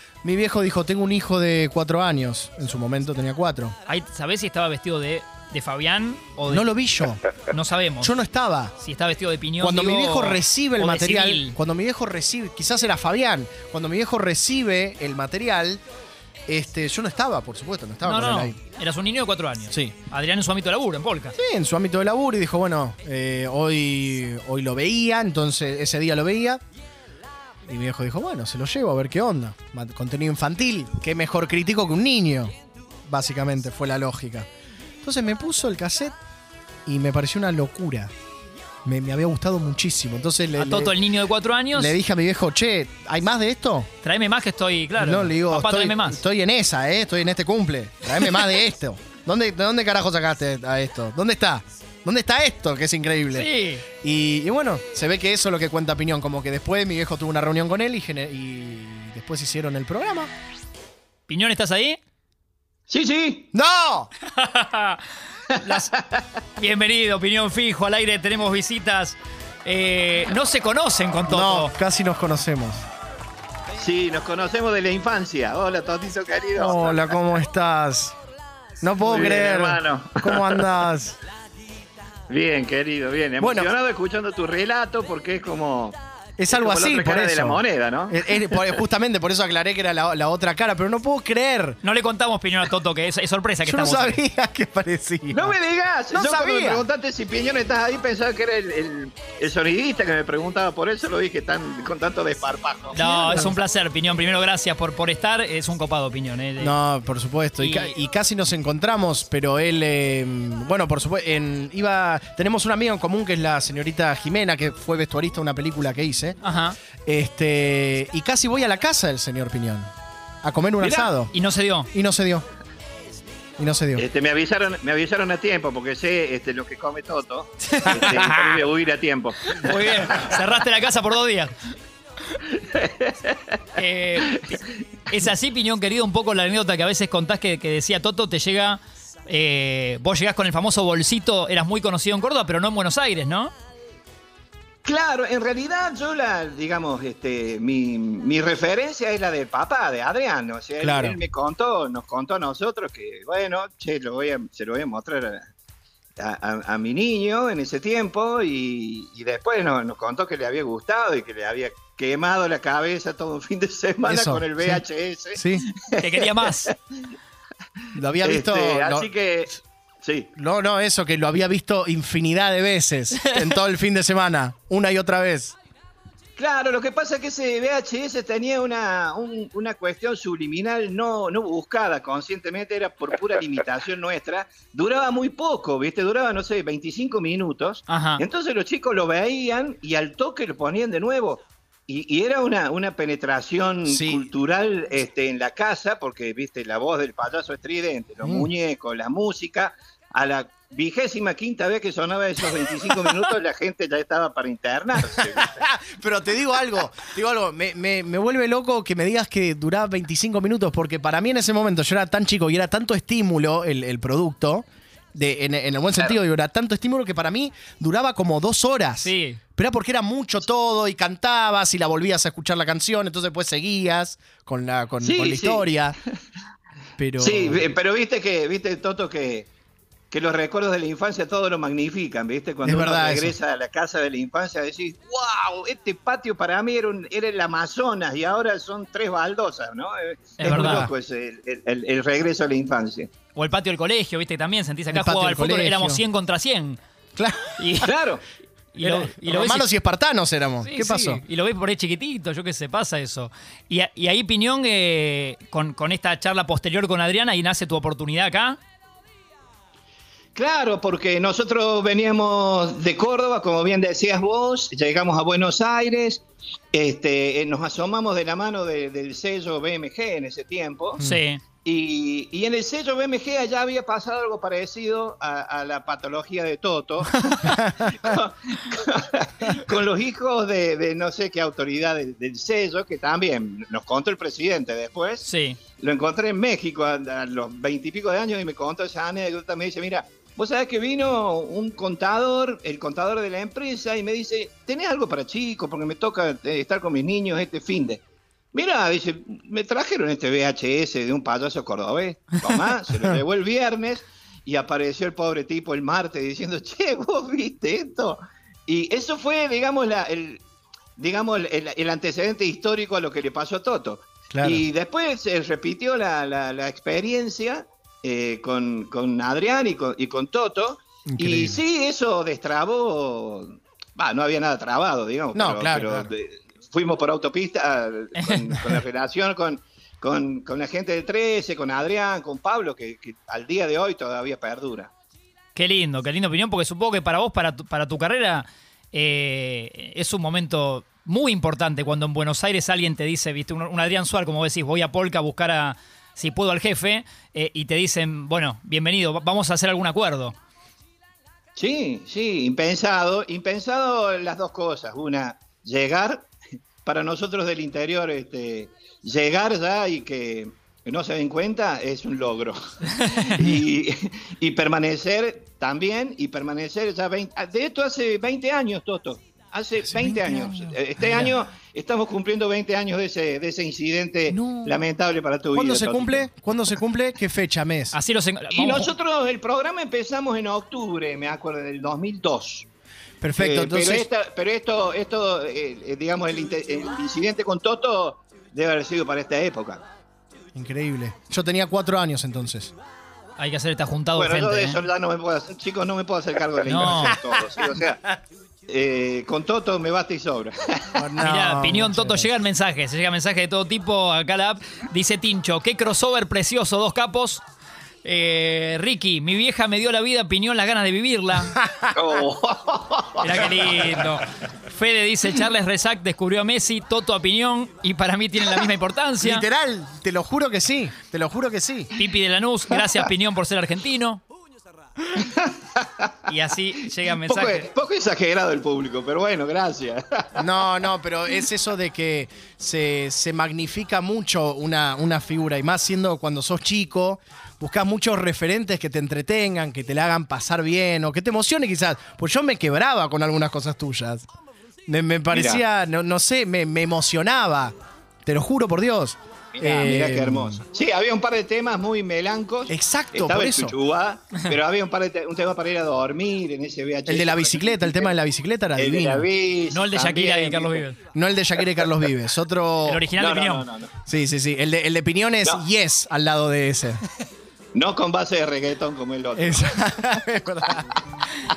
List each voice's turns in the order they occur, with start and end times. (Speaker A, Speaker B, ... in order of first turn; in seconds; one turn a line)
Speaker A: 0.2-3.7
Speaker B: 3.9-6.7
Speaker A: 6.5-7.2
Speaker B: 7.5-8.1
Speaker A: 8.0-8.7
Speaker B: 8.8-11.6
Speaker A: 9.6-15.8
Speaker A: 16.5-18.6
Speaker B: 18.0-21.4
Speaker A: 21.4-26.6
Speaker A: 27.7-32.5
Speaker A: 33.1-34.5
Speaker A: 35.0-36.1
Speaker A: 36.9-38.1
Speaker A: 38.9-41.0
Speaker B: 40.6-42.0
Speaker A: 41.7-43.9
Speaker B: 44.0-46.2
Speaker A: 45.0-60.3
Speaker B: 53.3-53.8
Speaker B: 61.3-62.0
Speaker C: 62.9-63.5
Speaker A: 63.5-64.1
Speaker B: 64.3-65.0
Speaker C: 65.5-66.2
Speaker B: 65.6-65.9
Speaker B: 66.6-71.7
Speaker A: 71.3-72.8
Speaker C: 73.8-77.0
Speaker A: 76.6-78.2
Speaker A: 78.8-81.2
Speaker C: 79.0-80.7
Speaker C: 82.3-86.0
Speaker A: 83.4-83.7
Speaker A: 86.4-91.8
Speaker C: 86.5-88.8
Speaker B: 91.8-94.2
Speaker A: 93.7-95.5
Speaker C: 95.3-103.0
Speaker A: 96.1-96.8
Speaker B: 102.9-106.8
Speaker A: 103.0-103.5
Speaker A: 106.6-116.4
Speaker B: 107.6-107.9
Speaker B: 116.4-116.8
Speaker A: 117.1-119.9
Speaker A: 120.4-121.3
Speaker B: 120.8-121.9
Speaker A: 121.9-122.5
Speaker A: 123.6-124.1
Speaker C: 124.0-130.2
Speaker B: 127.7-128.4
Speaker B: 129.5-131.5
Speaker C: 132.6-133.5
Speaker B: 133.8-143.5
Speaker C: 144.8-155.5
Speaker A: 150.8-151.2
Speaker C: 156.2-166.8
Speaker A: 164.1-164.8
Speaker A: 165.3-165.7
Speaker B: 166.0-166.7
Speaker A: 167.9-169.1
Speaker C: 168.2-170.3
Speaker A: 170.4-175.6
Speaker C: 176.4-205.6
Speaker B: 187.9-188.2
Speaker A: 193.8-194.2
Speaker A: 198.2-198.5
Speaker A: 202.7-203.1
Speaker A: 205.2-226.0
Speaker B: 219.0-219.4
Speaker C: 225.0-225.8
Speaker A: 227.0-227.7
Speaker C: 227.2-229.5
Speaker C: 230.1-243.1
Speaker A: 232.6-233.3
Speaker B: 240.4-240.9
Speaker A: 240.4-240.9
Speaker B: 243.3-246.8
Speaker A: 244.9-246.0
Speaker A: 247.2-247.7
Speaker B: 247.6-247.9
Speaker C: 247.8-248.2
Speaker B: 248.7-249.7
Speaker A: 248.8-251.2
Speaker B: 250.6-258.6
Speaker C: 260.4-271.0
Speaker B: 271.0-271.4
Speaker C: 271.6-285.3
Speaker A: 277.5-277.9
Speaker B: 285.2-285.6
Speaker C: 285.8-298.0
Speaker C: 298.5-310.4
Speaker C: 311.0-334.9
Speaker A: 314.3-314.6
Speaker A: 321.1-321.6
Speaker A: 325.4-326.1
Speaker B: 328.2-328.6
Speaker B: 335.6-350.4
Speaker C: 351.6-356.3
Speaker C: 356.9-376.3
Speaker A: 369.9-371.3
Speaker A: 374.3-374.8
Speaker A: 375.6-378.0
Speaker B: 377.9-378.9
Speaker C: 378.5-382.7
Speaker A: 383.2-384.1
Speaker C: 383.4-389.8
Speaker A: 390.6-392.7
Speaker B: 393.4-394.8
Speaker C: 394.1-398.0
Speaker B: 396.7-397.2
Speaker A: 396.8-397.3
Speaker C: 398.7-401.0
Speaker A: 400.9-402.3
Speaker B: 401.2-407.4
Speaker B: 408.0-411.6
Speaker A: 411.6-411.9
Speaker C: 411.9-414.0
Speaker B: 413.2-419.4
Speaker A: 419.2-421.9
Speaker B: 422.0-424.2
Speaker C: 425.2-426.1
Speaker B: 426.3-427.7
Speaker C: 427.1-430.6
Speaker A: 430.4-444.3
Speaker A: 444.9-447.7
Speaker C: 445.3-445.6
Speaker A: 448.3-450.6
Speaker C: 449.5-458.2
Speaker A: 452.7-453.8
Speaker A: 457.1-459.3
Speaker C: 458.8-460.8
Speaker B: 459.7-461.0
Speaker A: 461.1-463.0
Speaker B: 462.9-463.6
Speaker C: 463.2-463.9
Speaker A: 464.1-467.0
Speaker C: 467.8-470.1
Speaker A: 469.4-470.9